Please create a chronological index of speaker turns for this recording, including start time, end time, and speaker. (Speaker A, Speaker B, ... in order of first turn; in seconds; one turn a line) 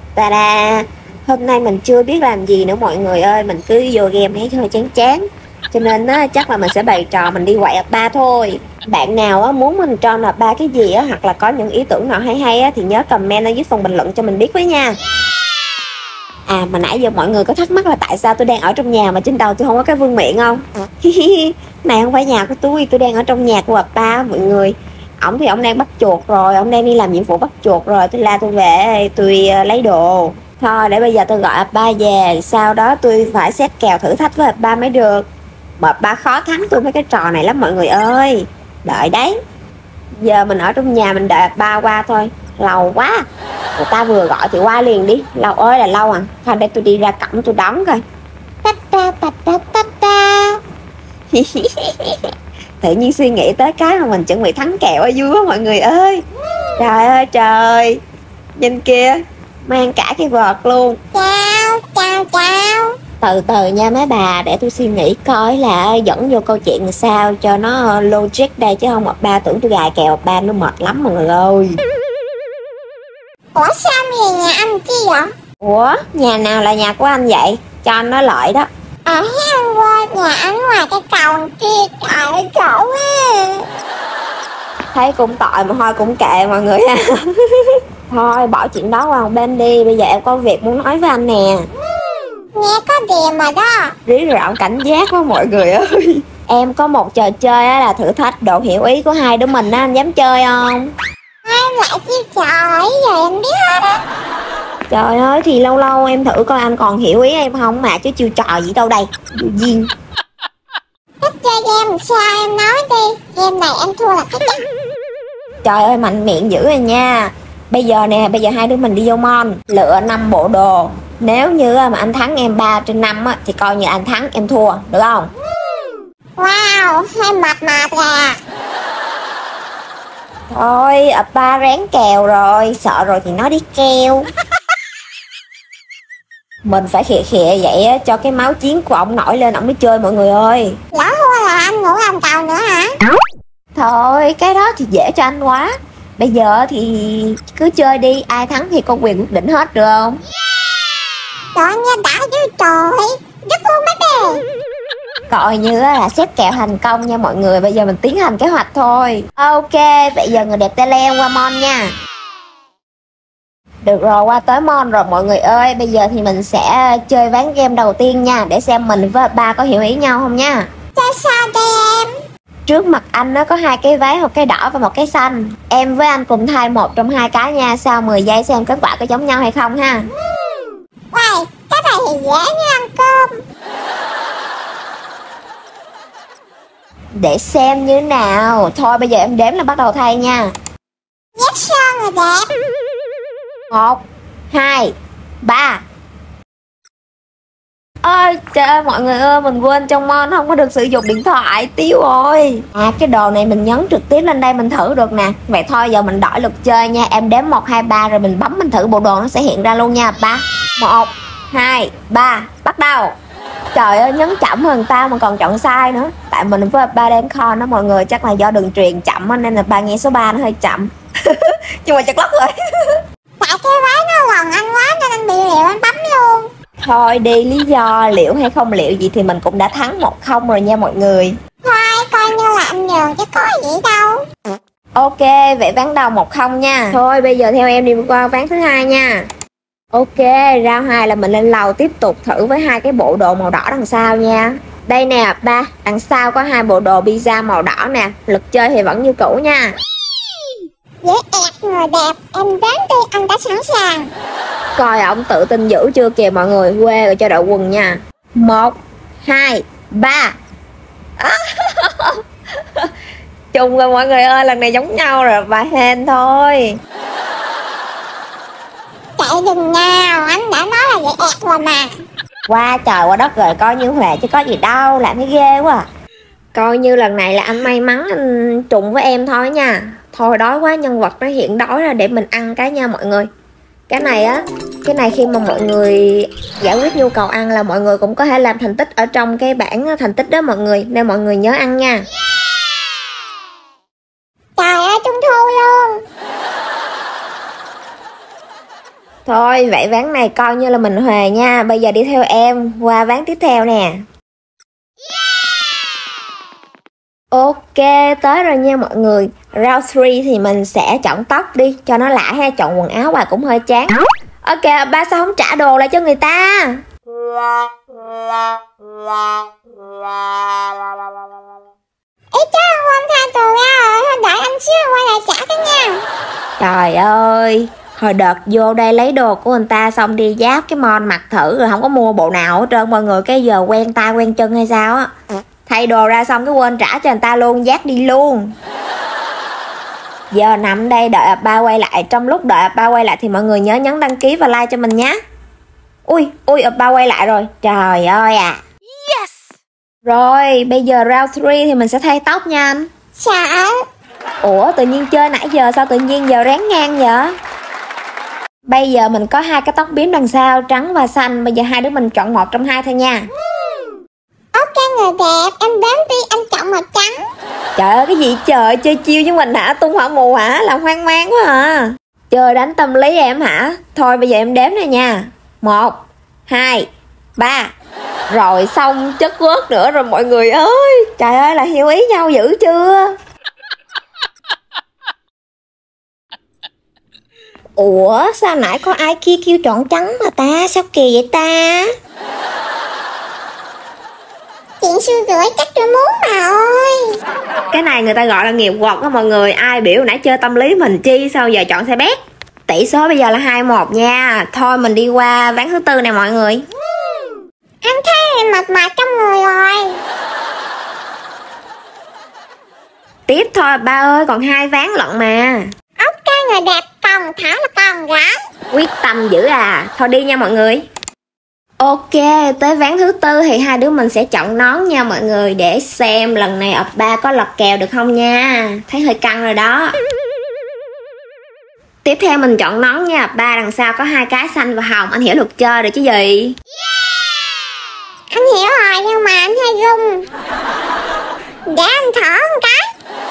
Speaker A: 0.1-14.9
Speaker A: 16.5-35.3
Speaker A: 35.8-39.3
Speaker A: 40.2-43.2
Speaker A: 43.8-48.0
Speaker A: 48.6-50.6
Speaker A: 51.3-56.2
Speaker A: 56.8-58.0
Speaker A: 58.6-61.0
Speaker B: 61.1-62.9
Speaker A: 63.2-71.8
Speaker B: 73.5-75.3
Speaker A: 75.6-78.7
Speaker B: 79.0-83.7
Speaker A: 84.9-91.6
Speaker B: 92.5-93.9
Speaker A: 94.0-100.9
Speaker B: 101.5-104.0
Speaker A: 104.9-109.9
Speaker B: 111.2-114.6
Speaker A: 115.6-125.3
Speaker B: 126.4-128.4
Speaker A: 130.5-134.2
Speaker A: 136.6-140.8
Speaker B: 140.9-142.9
Speaker A: 143.7-150.2
Speaker B: 151.5-154.4
Speaker A: 155.3-161.9
Speaker A: 163.8-170.7
Speaker B: 170.9-172.1
Speaker A: 172.7-180.1
Speaker B: 181.1-183.3
Speaker A: 187.1-190.5
Speaker B: 191.4-192.5
Speaker A: 193.7-195.8
Speaker A: 198.0-213.1
Speaker A: 213.7-223.0
Speaker B: 223.4-226.5
Speaker A: 226.8-231.3
Speaker B: 231.6-234.2
Speaker A: 234.9-239.2
Speaker A: 239.9-249.7
Speaker B: 251.0-254.1
Speaker A: 254.8-260.3
Speaker A: 261.2-262.2
Speaker A: 263.5-266.8
Speaker B: 269.2-271.9
Speaker A: 272.5-275.9
Speaker A: 276.5-283.3
Speaker A: 283.9-292.0
Speaker B: 294.6-296.0
Speaker A: 299.2-304.0
Speaker A: 307.3-316.8
Speaker B: 322.3-326.0
Speaker A: 326.6-335.1
Speaker A: 335.7-338.5
Speaker A: 340.3-345.2
Speaker A: 346.1-348.6
Speaker A: 350.0-352.9
Speaker B: 353.2-353.8
Speaker A: 354.4-357.3
Speaker A: 358.7-363.2
Speaker B: 364.5-367.2
Speaker A: 367.8-376.9
Speaker A: 377.4-377.7
Speaker A: 378.3-383.1
Speaker A: 387.8-391.9
Speaker B: 394.8-397.0
Speaker A: 397.7-402.2
Speaker A: 402.7-406.6
Speaker B: 407.8-410.0
Speaker A: 413.3-415.7
Speaker B: 416.0-418.3
Speaker A: 418.7-420.8
Speaker A: 421.8-429.9
Speaker A: 432.0-436.5
Speaker B: 438.3-440.2
Speaker B: 441.7-442.8